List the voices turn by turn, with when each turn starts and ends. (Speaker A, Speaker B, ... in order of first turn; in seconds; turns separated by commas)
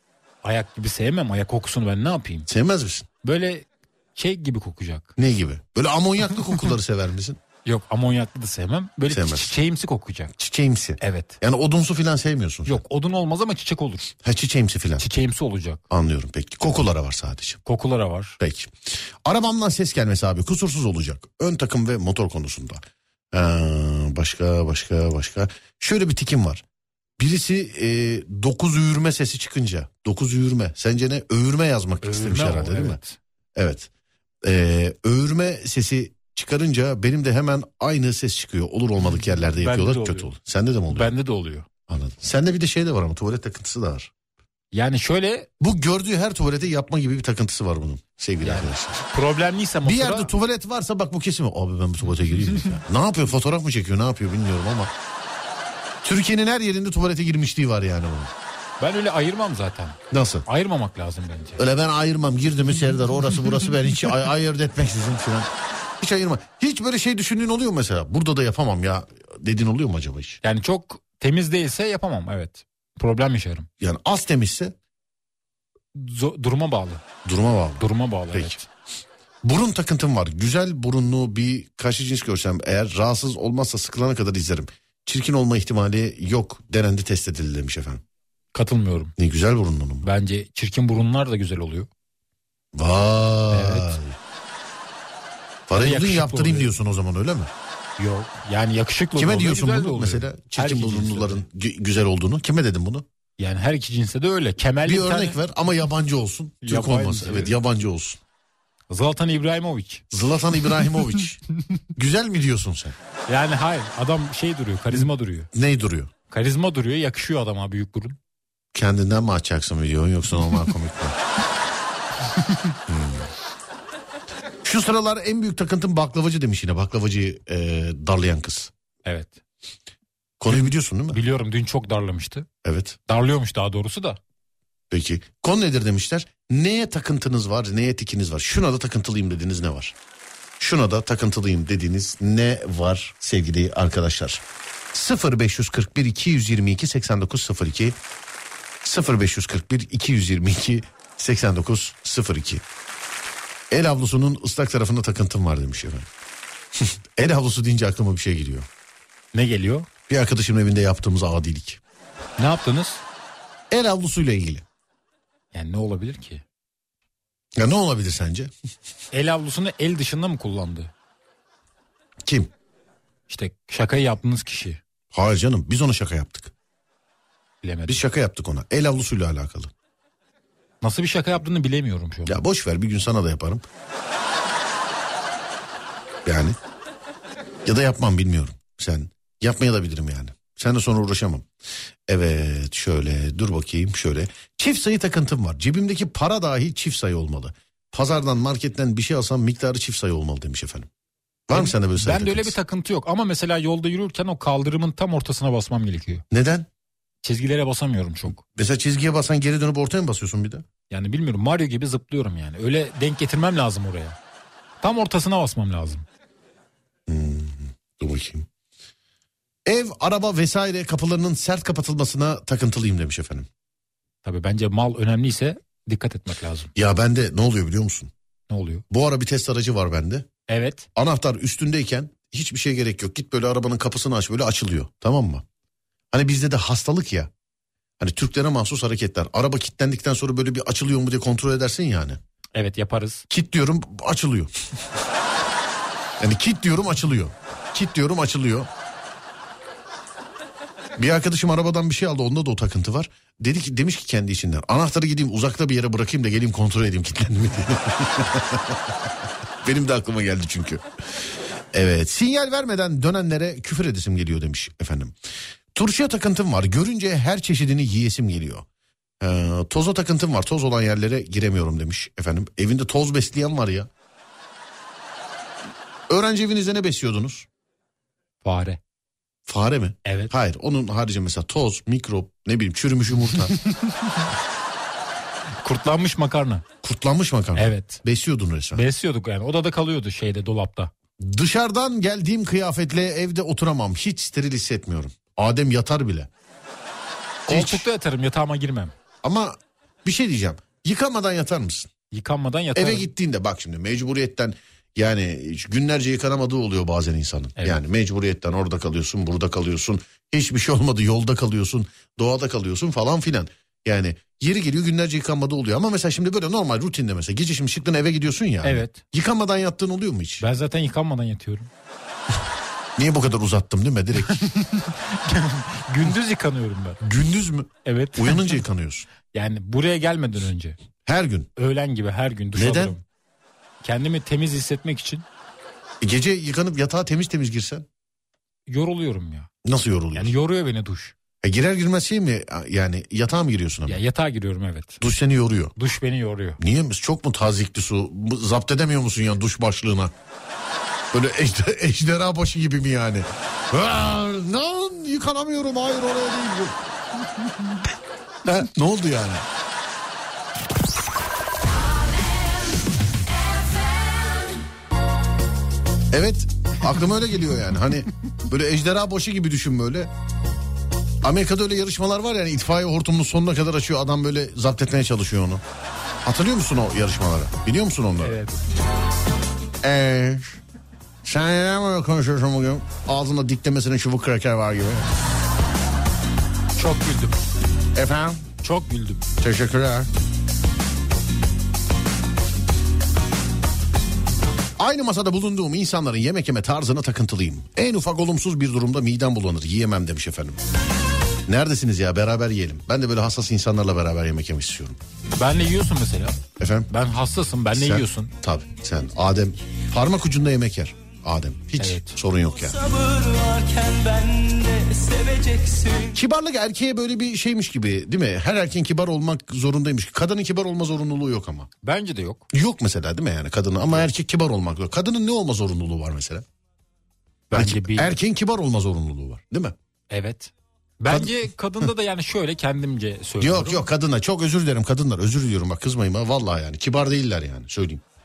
Speaker A: 0.4-2.5, Speaker B: 2.5-3.1, Speaker A: 3.2-5.1, Speaker B: 5.2-7.4, Speaker A: 7.6-10.3, Speaker B: 9.1-9.5, Speaker B: 10.4-12.8, Speaker A: 11.0-11.4, Speaker A: 12.7-14.1, Speaker B: 14.2-15.0, Speaker A: 15.0-15.8, Speaker B: 15.9-17.6, Speaker A: 17.6-18.4, Speaker B: 18.4-26.6, Speaker B: 27.2-33.0, Speaker A: 32.0-33.2, Speaker B: 33.5-33.9, Speaker B: 34.4-41.1, Speaker A: 39.6-40.3, Speaker A: 40.9-41.6, Speaker B: 41.9-44.1, Speaker A: 44.7-45.5, Speaker B: 45.6-49.0, Speaker A: 48.4-50.3, Speaker B: 49.8-54.9, Speaker B: 56.0-58.3, Speaker A: 58.8-61.6, Speaker B: 60.1-60.5, Speaker B: 61.6-70.4, Speaker A: 70.4-73.7, Speaker B: 73.8-74.7, Speaker A: 75.9-77.0, Speaker B: 77.2-78.6, Speaker A: 77.8-78.7, Speaker B: 79.4-88.0, Speaker A: 88.5-89.1, Speaker B: 89.2-90.1, Speaker A: 90.0-91.9, Speaker B: 92.7-94.2, Speaker A: 93.5-94.0, Speaker B: 95.7-97.5, Speaker A: 95.7-96.7, Speaker A: 98.0-101.4, Speaker B: 99.1-103.0, Speaker A: 103.4-105.4, Speaker B: 104.8-108.2, Speaker A: 106.6-107.5, Speaker A: 108.9-110.0, Speaker B: 110.1-111.4, Speaker B: 111.9-113.0, Speaker A: 113.3-115.5, Speaker B: 114.9-116.1, Speaker A: 116.3-118.2, Speaker B: 118.7-121.2, Speaker A: 122.4-122.7, Speaker B: 122.9-123.3, Speaker B: 124.6-128.7, Speaker A: 129.1-129.4, Speaker B: 130.4-131.2, Speaker A: 130.5-132.5, Speaker B: 132.6-133.0, Speaker A: 133.1-134.2, Speaker B: 134.9-139.9, Speaker B: 140.6-148.0, Speaker B: 148.8-152.6, Speaker B: 153.7-156.1, Speaker B: 156.8-158.7, Speaker A: 159.3-159.9, Speaker B: 160.1-161.8, Speaker A: 162.4-163.0, Speaker B: 163.7-164.6, Speaker A: 165.5-166.4, Speaker B: 167.6-168.5, Speaker A: 169.1-170.9, Speaker B: 172.2-172.5, Speaker A: 173.3-174.8, Speaker B: 175.1-176.5, Speaker A: 177.6-178.0, Speaker B: 177.9-179.7, Speaker A: 180.8-182.4, Speaker B: 182.2-183.6, Speaker B: 186.2-186.6, Speaker B: 187.6-191.5, Speaker B: 192.1-200.9, Speaker B: 201.5-202.5, Speaker A: 201.5-206.2, Speaker B: 206.3-206.7, Speaker A: 207.2-208.4, Speaker B: 208.4-210.6, Speaker A: 210.9-214.2, Speaker A: 214.8-216.0, Speaker B: 217.1-218.5, Speaker B: 219.7-223.5, Speaker A: 224.2-226.7, Speaker B: 226.7-228.1, Speaker A: 228.5-228.8, Speaker B: 228.9-230.3, Speaker A: 230.5-230.9, Speaker B: 230.9-235.4, Speaker B: 236.1-237.3, Speaker B: 238.0-242.2, Speaker A: 242.6-243.3, Speaker B: 243.3-244.5, Speaker B: 246.2-248.7, Speaker B: 251.0-258.9, Speaker B: 259.6-260.8, Speaker B: 261.7-265.1, Speaker B: 265.7-268.6, Speaker B: 269.2-273.9, Speaker B: 276.1-277.5, Speaker A: 278.4-278.8, Speaker B: 279.4-283.6, Speaker A: 280.0-280.3, Speaker A: 283.5-284.2, Speaker A: 285.6-286.6, Speaker B: 286.8-288.8, Speaker A: 287.6-288.0, Speaker A: 288.7-290.9, Speaker B: 291.2-296.3, Speaker B: 297.5-297.9, Speaker A: 297.5-298.9, Speaker B: 299.2-301.9, Speaker A: 302.1-303.1, Speaker B: 302.8-320.4, Speaker A: 318.6-319.0, Speaker A: 320.4-321.7, Speaker B: 323.0-324.4, Speaker A: 324.3-327.0, Speaker B: 327.0-329.1, Speaker A: 327.8-328.6, Speaker A: 329.3-330.8, Speaker B: 331.0-331.5, Speaker A: 331.6-333.0, Speaker B: 332.5-332.9, Speaker A: 333.8-335.2, Speaker B: 336.0-337.9, Speaker A: 338.7-339.5, Speaker B: 339.6-340.3, Speaker A: 340.1-341.1, Speaker B: 341.4-344.0, Speaker A: 343.9-345.0, Speaker B: 345.0-345.7, Speaker A: 345.8-346.6, Speaker B: 346.6-350.1, Speaker B: 351.1-356.8, Speaker B: 358.4-359.4, Speaker B: 366.1-370.1, Speaker B: 371.2-375.6, Speaker B: 376.2-378.4, Speaker A: 378.2-378.6, Speaker B: 379.8-380.6, Speaker B: 381.2-385.1, Speaker A: 386.8-387.4, Speaker B: 387.9-388.4, Speaker A: 388.6-389.2, Speaker B: 389.4-390.1, Speaker B: 394.8-400.6, Speaker B: 401.5-405.0, Speaker A: 405.4-406.4, Speaker B: 406.6-406.9, Speaker A: 406.9-408.3, Speaker B: 407.7-412.8, Speaker A: 411.8-412.2, Speaker C: 412.6-416.1, Speaker B: 416.1-421.7, Speaker A: 421.8-422.4, Speaker B: 422.5-426.4, Speaker A: 427.5-428.1, Speaker B: 427.5-429.7, Speaker A: 430.1-433.9, Speaker B: 431.1-431.9, Speaker B: 433.4-438.0